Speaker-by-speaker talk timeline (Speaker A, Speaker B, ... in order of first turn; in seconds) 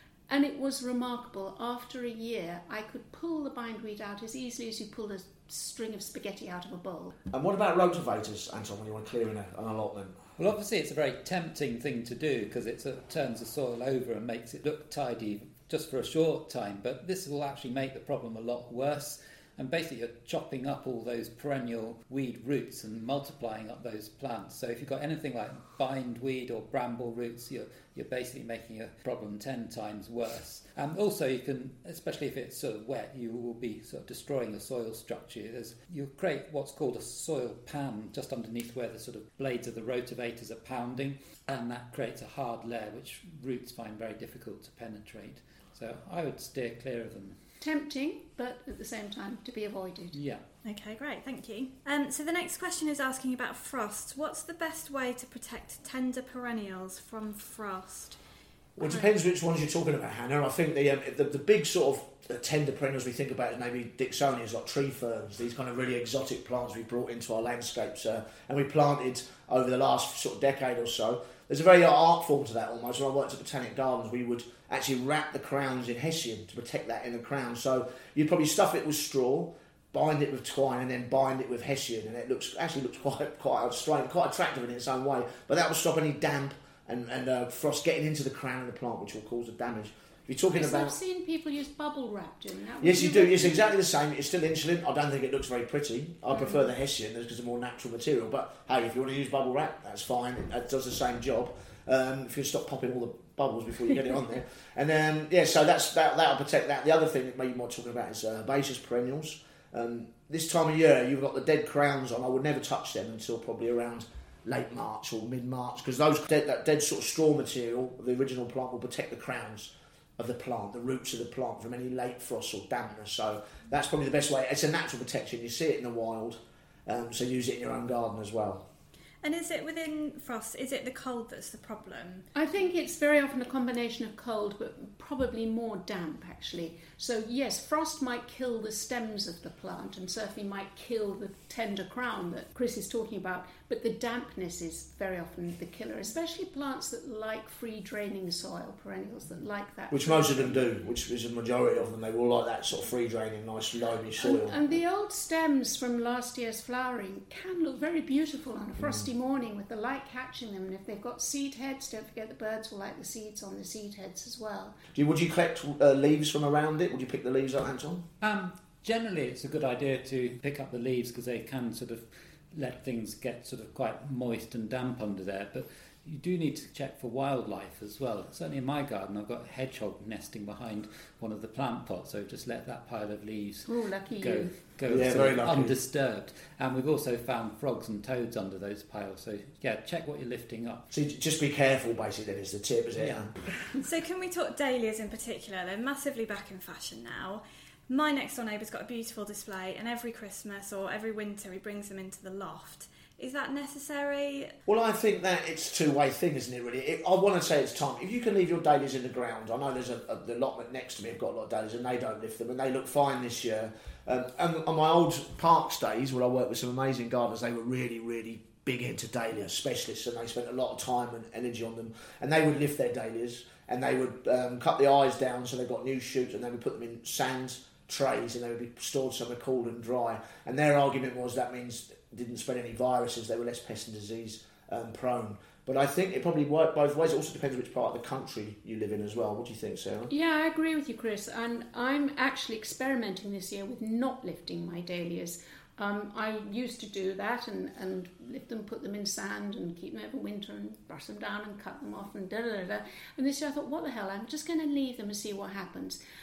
Speaker A: 0.3-7.2, 47.6-50.2, 90.5-93.7, 96.4-96.6, 132.3-150.7, 154.2-164.8, 183.7-184.6, 240.1-256.0
Speaker B: 7.3-10.2, 58.8-91.0, 92.8-128.6, 149.9-154.8, 164.9-168.0, 184.9-185.8, 190.9-193.3, 204.7-240.1
Speaker C: 10.4-47.4, 50.1-50.4, 168.2-190.9, 193.0-193.3
Speaker D: 50.6-58.2, 58.8-59.1, 129.2-132.3, 193.8-204.6